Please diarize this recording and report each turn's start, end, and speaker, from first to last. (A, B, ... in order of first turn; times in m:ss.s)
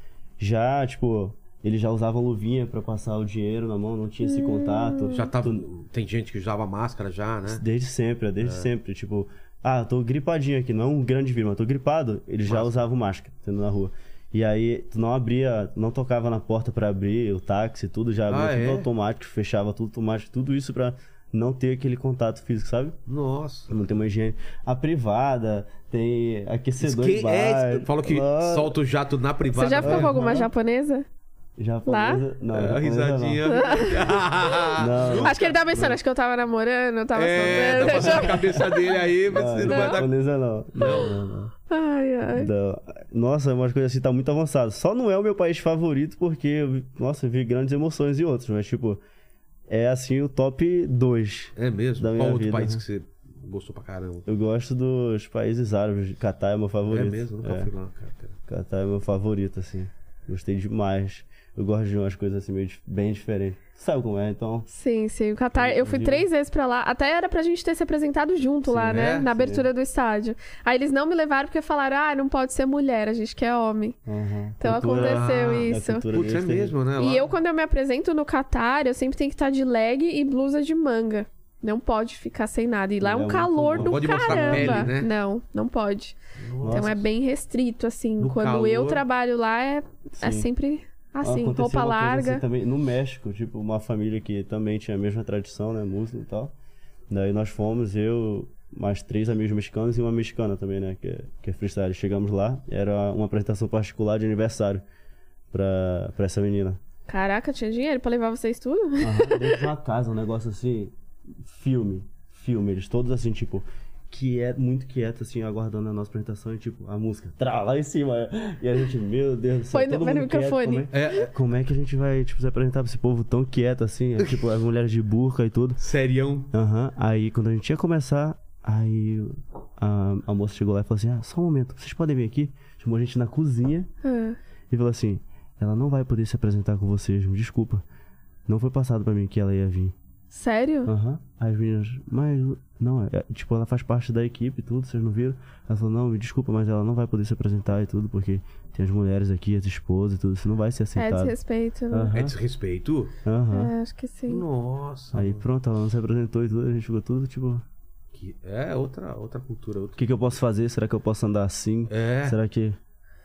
0:00.4-0:05.6 A
0:04.2-0:05.2 B
0:05.1-0:07.6 C
0:07.5-0:23.0 A
0:08.4-0:08.7 C
0:12.5-0:12.8 C
0:18.3-0:18.9 C
0:23.1-0:23.7 C
0:23.7-0:28.8 A
0:26.8-0:30.4 C
0:29.5-0:31.1 B
0:29.8-0:30.5 A
0:31.6-0:33.9 A
0:31.9-0:32.2 B
0:32.5-0:35.9 C
0:33.5-0:34.0 B
0:34.8-0:35.9 A
0:35.2-0:38.9 B
0:37.2-0:40.1 C
0:37.4-0:38.6 A
0:39.3-0:41.5 A
0:39.7-0:40.0 B
0:40.8-0:41.1 C
0:41.7-0:42.5 B
0:42.4-0:49.0 A
0:49.7-0:52.8 A
0:51.6-0:54.3 C
0:54.3-0:57.7 A
0:56.9-0:58.4 C
0:58.5-1:04.7 A
1:04.7-1:14.0 B
1:05.8-1:06.2 C
1:08.7-1:09.7 A
1:08.9-1:09.4 C
1:14.1-1:16.8 A
1:14.6-1:16.1 B
1:14.9-1:17.3 C
1:17.0-1:26.2 B
1:23.0-1:24.9 A
1:23.7-1:25.1 C
1:26.4-1:27.0 C
1:26.6-1:27.0 A
1:26.7-1:32.4 B
1:28.2-1:29.0 C
1:30.2-1:30.5 A
1:31.2-1:36.5 A
1:37.1-1:44.8 A
1:45.5-1:46.8 A
1:47.1-1:49.6 B
1:49.0-2:05.8 A
1:59.7-2:00.9 B
2:00.9-2:01.3 C
2:05.8-2:06.5 C
2:06.5-2:13.9 A
2:14.0-2:14.4 B
2:14.7-2:17.8 A
2:18.5-2:20.0 A
2:20.3-2:20.9 B
2:20.9-2:31.4 A
2:31.0-2:32.1 B
2:31.9-2:32.3 A
2:32.1-2:33.1 C
2:33.2-2:33.7 A
2:33.5-2:34.4 B
2:34.3-2:35.4 C
2:35.1-2:37.6 A
2:38.1-2:40.0 C
2:40.0-2:42.8 A
2:41.9-2:42.4 C